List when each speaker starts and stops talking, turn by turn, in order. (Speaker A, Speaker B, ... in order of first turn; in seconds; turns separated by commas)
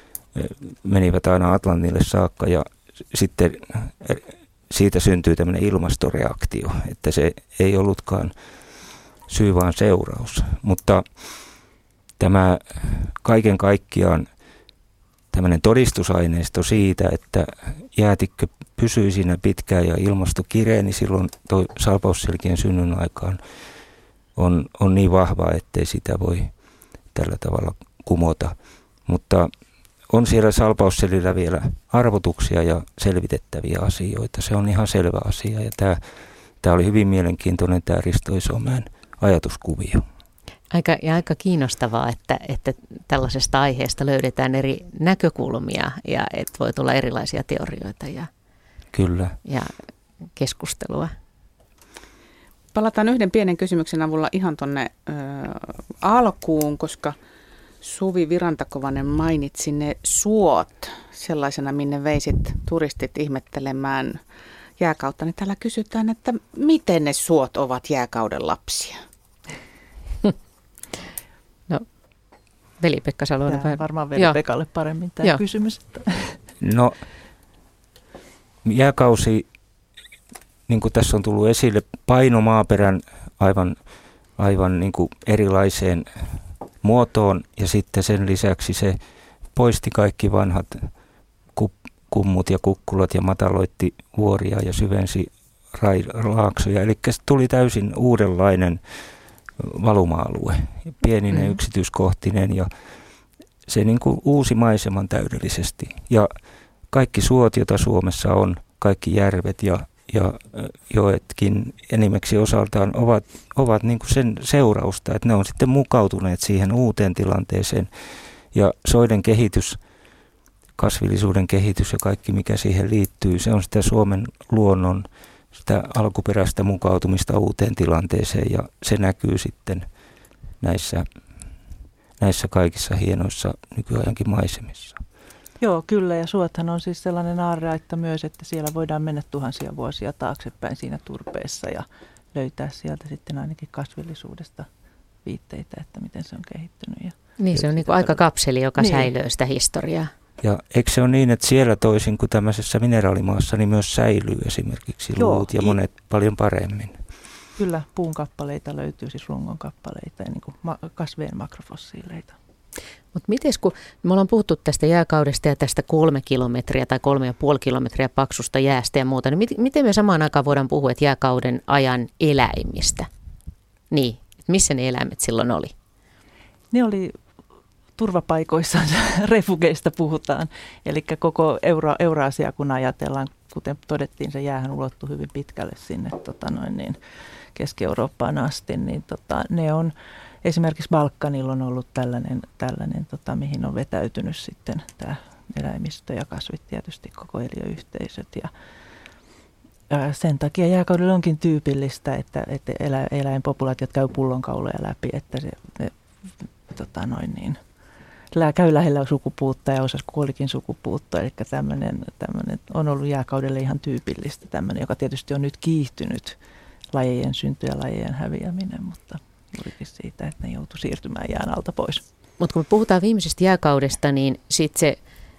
Speaker A: 0.3-8.3, Speaker A: 9.3-11.0, Speaker A: 12.2-14.3, Speaker A: 15.3-23.4, Speaker A: 24.4-26.5, Speaker A: 27.1-28.5, Speaker A: 29.1-29.5, Speaker A: 30.1-36.0, Speaker A: 36.6-40.0, Speaker B: 40.7-48.3, Speaker A: 48.9-49.3, Speaker B: 49.5-49.7, Speaker B: 50.4-51.1, Speaker C: 52.7-57.1, Speaker C: 57.8-64.2, Speaker C: 64.8-69.0, Speaker B: 72.8-74.4, Speaker D: 73.5-76.4, Speaker A: 76.6-77.0, Speaker A: 78.6-79.5, Speaker A: 80.7-83.8, Speaker A: 84.4-86.1, Speaker A: 86.8-89.0, Speaker A: 89.5-90.9, Speaker A: 91.5-98.8, Speaker A: 99.6-102.7, Speaker B: 101.3-101.6, Speaker A: 103.7-106.3, Speaker A: 106.9-117.9, Speaker A: 118.5-119.8, Speaker A: 120.8-129.9, Speaker A: 130.6-131.0, Speaker A: 132.2-135.0, Speaker D: 135.6-144.7, Speaker D: 145.2-147.1, Speaker B: 147.4-150.1, Speaker D: 147.8-148.1, Speaker D: 148.8-149.1, Speaker A: 150.4-157.0, Speaker D: 155.2-155.8, Speaker D: 157.6-162.3, Speaker B: 163.1-173.1, Speaker B: 173.9-175.7, Speaker D: 176.7-177.1, Speaker D: 178.0-187.0, Speaker D: 187.6-198.5, Speaker D: 199.9-205.9, Speaker D: 206.7-207.6, Speaker D: 208.3-216.4, Speaker D: 216.9-222.0, Speaker B: 222.4-225.0